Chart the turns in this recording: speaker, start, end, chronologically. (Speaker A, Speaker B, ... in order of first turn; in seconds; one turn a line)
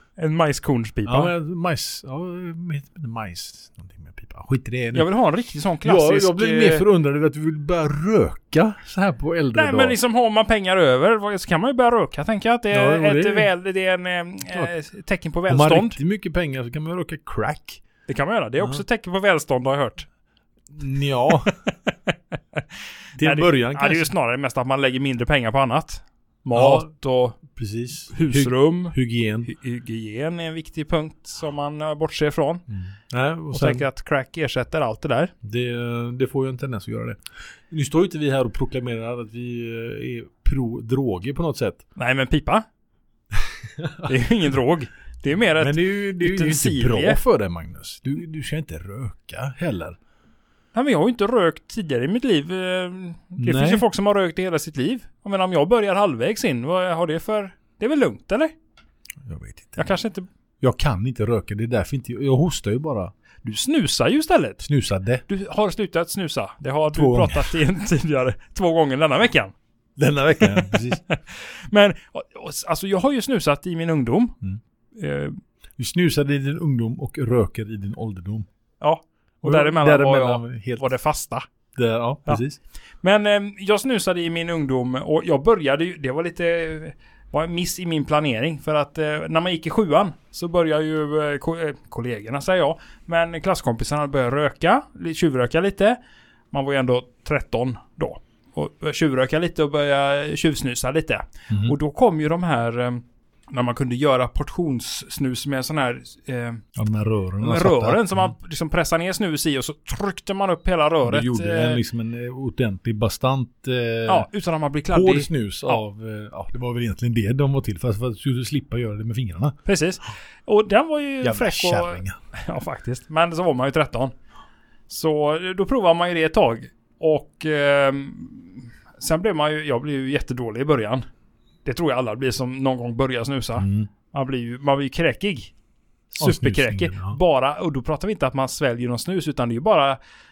Speaker A: 0.2-1.3
Speaker B: 1.0-5.1
Speaker A: 4.9-6.8
Speaker B: 5.8-9.9
Speaker A: 9.5-16.0
Speaker B: 12.7-13.5
Speaker B: 15.5-17.8
Speaker A: 18.1-20.1
Speaker B: 20.7-21.5
Speaker A: 21.3-21.9
Speaker B: 23.2-24.1
Speaker A: 23.2-27.4
Speaker B: 26.5-26.9
Speaker B: 27.5-29.5
Speaker A: 28.1-32.6
Speaker B: 32.7-33.9
Speaker A: 33.5-35.3
Speaker B: 35.4-37.2
Speaker B: 37.7-41.8
Speaker A: 42.0-42.6
Speaker B: 43.6-44.1
Speaker A: 44.0-47.2
Speaker B: 45.5-50.0
Speaker A: 50.7-58.5
Speaker B: 53.4-53.8
Speaker B: 59.2-59.9
Speaker A: 59.8-60.2
Speaker B: 60.6-63.1
Speaker A: 63.4-64.6
Speaker B: 64.6-65.2
Speaker A: 65.3-69.5
Speaker B: 66.9-67.5
Speaker B: 70.0-71.0
Speaker A: 70.6-74.3
Speaker A: 74.9-75.4
Speaker B: 75.8-78.5
Speaker A: 78.8-81.5
Speaker B: 79.4-80.9
Speaker B: 81.7-82.6
Speaker A: 83.0-96.0
Speaker A: 96.5-106.6
Speaker B: 101.5-101.8
Speaker B: 106.7-108.3
Speaker A: 107.4-111.8
Speaker B: 111.0-114.3
Speaker A: 114.1-115.8
Speaker B: 114.9-119.5
Speaker A: 119.7-124.1
Speaker B: 121.2-122.1
Speaker A: 124.9-131.0
Speaker A: 131.6-135.5
Speaker B: 133.6-133.9
Speaker A: 136.1-140.0
Speaker B: 136.2-137.2